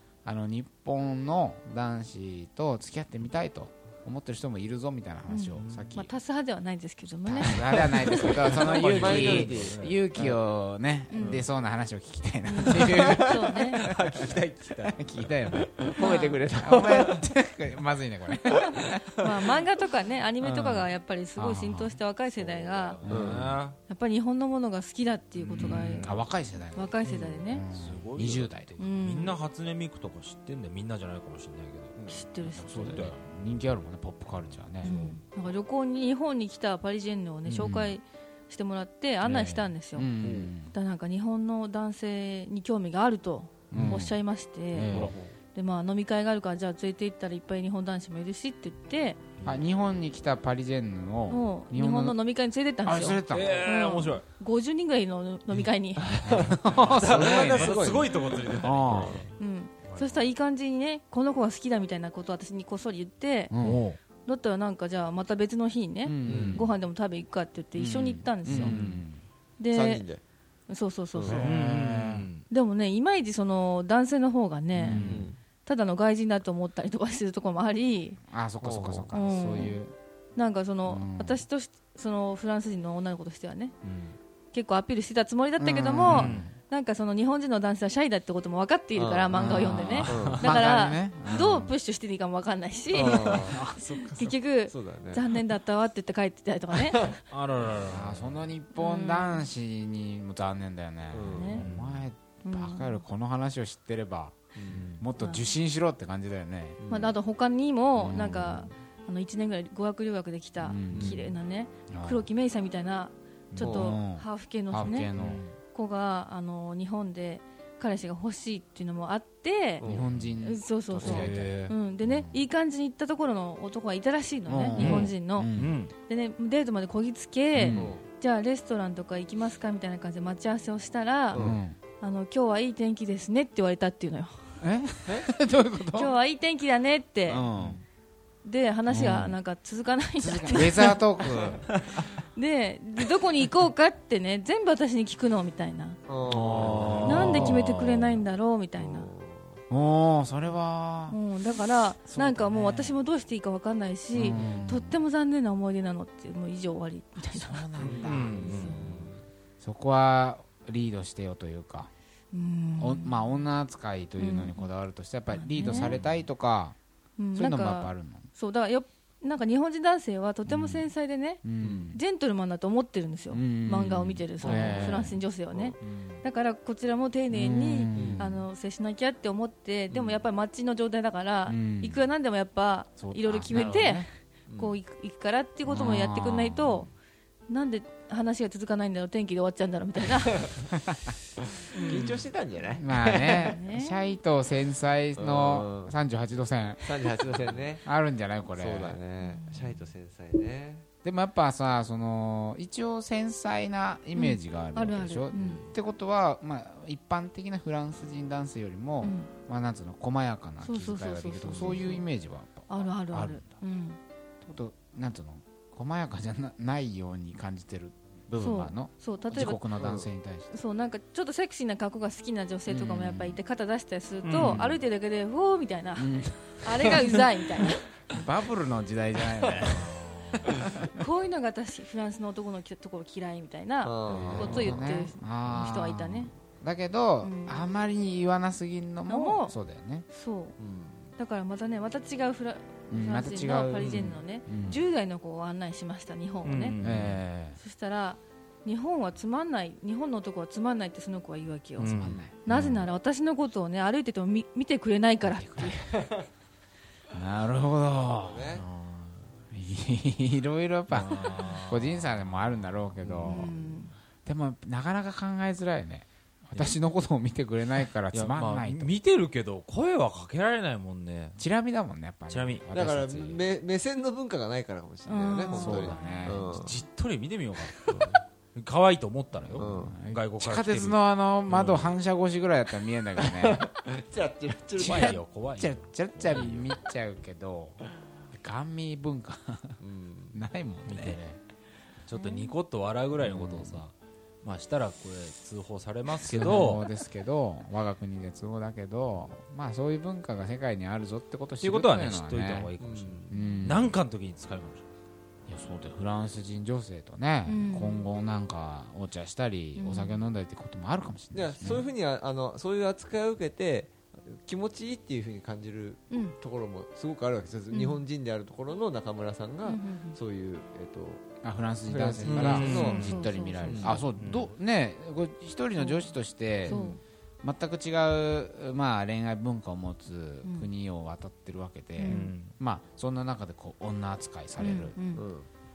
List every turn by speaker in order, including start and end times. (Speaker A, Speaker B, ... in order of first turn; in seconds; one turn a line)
Speaker A: 0.2-6.1
Speaker B: 5.3-8.3
Speaker C: 5.6-5.9
Speaker A: 7.2-19.2
Speaker D: 8.0-10.4
Speaker C: 8.2-10.0
Speaker B: 11.1-11.4
Speaker D: 11.2-11.5
Speaker B: 12.4-13.8
Speaker D: 12.7-13.2
Speaker C: 13.8-15.1
Speaker B: 16.0-16.4
Speaker D: 16.0-17.1
Speaker B: 19.2-23.0
Speaker A: 20.4-22.0
Speaker C: 22.3-23.8
Speaker A: 23.0-23.6
Speaker D: 23.1-23.5
Speaker B: 23.9-26.1
Speaker A: 25.4-28.7
Speaker C: 25.6-26.2
Speaker B: 26.7-27.6
Speaker C: 27.0-31.9
Speaker B: 28.8-29.4
Speaker D: 31.9-32.2
Speaker B: 32.1-33.0
Speaker A: 32.4-35.0
Speaker C: 32.7-33.2
Speaker C: 34.4-35.2
Speaker B: 34.8-40.1
Speaker A: 37.5-37.9
Speaker A: 39.2-40.7
Speaker D: 40.2-40.5
Speaker B: 40.7-49.2
Speaker A: 43.7-44.2
Speaker C: 43.8-44.0
Speaker A: 44.7-45.1
Speaker C: 44.9-45.2
Speaker D: 44.9-45.3
Speaker A: 49.4-52.2
Speaker B: 51.3-56.1
Speaker A: 52.8-53.7
Speaker C: 53.3-54.2
Speaker C: 55.6-59.3
Speaker D: 56.0-59.2
Speaker A: 56.3-58.0
Speaker A: 58.5-59.2
Speaker B: 59.4-63.5
Speaker C: 59.9-60.3
Speaker A: 63.5-63.8
Speaker C: 63.6-64.0
Speaker B: 64.2-68.8
Speaker A: 66.0-66.7
Speaker D: 66.2-66.6
Speaker A: 67.8-69.2
Speaker C: 68.5-68.9
Speaker B: 69.6-70.0
Speaker D: 69.7-70.2
Speaker B: 70.7-71.5
Speaker D: 71.1-71.5
Speaker A: 71.2-72.3
Speaker C: 71.4-72.5
Speaker B: 72.5-75.1
Speaker A: 74.8-75.3
Speaker D: 75.0-75.4
Speaker B: 75.6-78.2
Speaker A: 78.3-79.9
Speaker D: 78.6-79.1
Speaker B: 79.1-79.7
Speaker B: 80.3-83.7
Speaker A: 80.9-81.4
Speaker B: 84.5-97.2
Speaker A: 85.6-86.5
Speaker C: 86.1-86.5
Speaker D: 88.9-90.5
Speaker A: 89.3-91.7
Speaker C: 90.0-90.4
Speaker D: 92.9-93.7
Speaker A: 93.5-94.3
Speaker C: 93.6-94.0
Speaker D: 94.7-95.2
Speaker D: 96.8-97.1
Speaker C: 97.3-98.5
Speaker A: 97.8-106.8
Speaker B: 98.7-99.5
Speaker D: 101.1-101.7
Speaker B: 101.3-101.6
Speaker C: 101.6-102.0
Speaker B: 102.4-103.0
Speaker D: 104.5-105.0
Speaker C: 104.7-105.0
Speaker B: 105.2-105.4
Speaker D: 106.8-107.1
Speaker B: 106.9-115.1
Speaker A: 108.0-108.7
Speaker A: 110.6-111.2
Speaker D: 110.9-111.2
Speaker A: 111.9-112.3
Speaker A: 113.5-115.4
Speaker D: 113.6-114.0
Speaker C: 115.2-115.5
Speaker B: 115.7-119.8
Speaker D: 119.8-120.1
Speaker A: 119.8-122.4
Speaker B: 120.4-125.5
Speaker C: 121.0-121.7
Speaker A: 124.5-125.8
Speaker C: 124.8-125.9
Speaker B: 126.0-131.4
Speaker A: 127.5-128.0
Speaker D: 127.7-128.0
Speaker D: 131.3-131.6
Speaker A: 131.3-131.8
Speaker B: 132.0-134.6
Speaker A: 134.6-136.1
Speaker B: 135.9-137.5
Speaker A: 137.3-137.8
Speaker B: 138.4-141.0
Speaker A: 138.9-139.4
Speaker A: 140.2-141.7
Speaker D: 141.2-141.6
Speaker C: 141.7-142.0
Speaker B: 142.3-146.0
Speaker D: 146.1-147.4
Speaker A: 146.2-148.0
Speaker C: 146.3-148.2
Speaker B: 147.0-149.1
Speaker D: 148.8-149.6
Speaker A: 149.7-151.2
Speaker B: 151.1-158.8
Speaker A: 152.1-153.0
Speaker A: 154.1-155.0
Speaker A: 157.2-158.8
Speaker D: 157.8-159.2
Speaker C: 158.0-159.0
Speaker A: 159.6-161.9
Speaker B: 162.3-163.3
Speaker A: 162.8-166.8
Speaker B: 164.2-164.7
Speaker B: 165.3-165.9
Speaker B: 167.2-171.4
Speaker A: 167.3-168.3
Speaker A: 170.5-170.9
Speaker A: 171.4-172.0
Speaker D: 171.6-171.9
Speaker B: 171.9-186.9
Speaker A: 173.3-175.2
Speaker D: 174.4-175.8
Speaker C: 175.8-176.2
Speaker A: 177.3-178.4
Speaker D: 177.9-178.3
Speaker D: 179.9-180.2
Speaker A: 181.5-182.1
Speaker A: 183.0-184.1
Speaker D: 184.5-184.8
Speaker A: 185.7-186.8
Speaker B: 187.5-190.5
Speaker A: 190.8-191.1
Speaker C: 191.7-192.3
Speaker D: 191.8-193.6
Speaker A: 192.7-199.0
Speaker B: 193.1-194.0
Speaker D: 195.2-195.9
Speaker D: 196.8-197.8
Speaker D: 198.5-200.8
Speaker B: 199.2-199.7
Speaker A: 201.0-213.6
Speaker B: 204.1-205.6
Speaker D: 205.3-205.7
Speaker B: 209.0-209.3
Speaker B: 210.6-212.0
Speaker B: 212.7-214.0
Speaker A: 214.4-220.5
Speaker B: 218.4-219.6
Speaker D: 219.7-220.1
Speaker B: 220.5-227.8
Speaker A: 222.7-223.3
Speaker C: 224.2-224.7
Speaker A: 224.4-224.8
Speaker A: 226.0-227.3
Speaker A: 228.1-230.8
Speaker C: 229.9-230.3
Speaker B: 230.9-236.3
Speaker D: 233.8-234.8
Speaker A: 234.1-240.1
Speaker C: 234.1-234.5
Speaker B: 237.2-237.6
Speaker B: 239.1-239.5
Speaker B: 240.1-240.6
Speaker D: 240.6-241.1
Speaker B: 241.2-246.8
Speaker A: 242.9-244.8
Speaker D: 243.8-244.2
Speaker C: 246.4-247.2
Speaker A: 246.8-247.6
Speaker B: 247.6-255.8
Speaker C: 251.8-252.2
Speaker A: 251.8-252.8
Speaker A: 255.2-255.9
Speaker D: 255.9-256.2
Speaker A: 257.1-258.5
Speaker D: 257.9-258.6
Speaker C: 258.6-259.3
Speaker A: 259.5-263.5
Speaker C: 260.9-262.8
Speaker D: 263.1-263.7
Speaker B: 263.2-263.9
Speaker A: 264.2-268.9
Speaker C: 268.1-271.4
Speaker A: 271.4-273.4
Speaker C: 272.3-272.7
Speaker D: 272.7-276.7
Speaker B: 275.1-276.3
Speaker A: 275.5-276.5
Speaker C: 276.2-281.9
Speaker D: 277.8-278.1
Speaker A: 279.4-283.6
Speaker D: 279.6-279.9
Speaker D: 283.2-285.2
Speaker C: 284.8-286.8
Speaker A: 284.8-289.8
Speaker D: 289.8-290.4
Speaker A: 290.3-291.4
Speaker C: 290.9-291.2
Speaker C: 292.1-296.9
Speaker B: 292.1-292.5
Speaker A: 293.2-293.8
Speaker A: 296.2-302.7
Speaker C: 301.6-304.8
Speaker D: 302.8-303.4
Speaker A: 303.3-303.9
Speaker A: 305.5-311.8
Speaker B: 307.4-308.1
Speaker B: 309.8-310.2
Speaker D: 311.3-321.2
Speaker B: 317.7-318.0
Speaker B: 319.6-320.2
Speaker A: 321.4-335.0
Speaker D: 321.9-323.1
Speaker C: 322.2-323.1
Speaker B: 322.6-324.0
Speaker D: 323.6-324.0
Speaker C: 324.1-324.5
Speaker B: 325.8-326.0
Speaker B: 326.7-327.0
Speaker D: 326.7-327.0
Speaker B: 330.4-330.7
Speaker B: 332.0-332.3
Speaker C: 332.1-332.5
Speaker B: 334.6-335.2
Speaker D: 335.1-335.5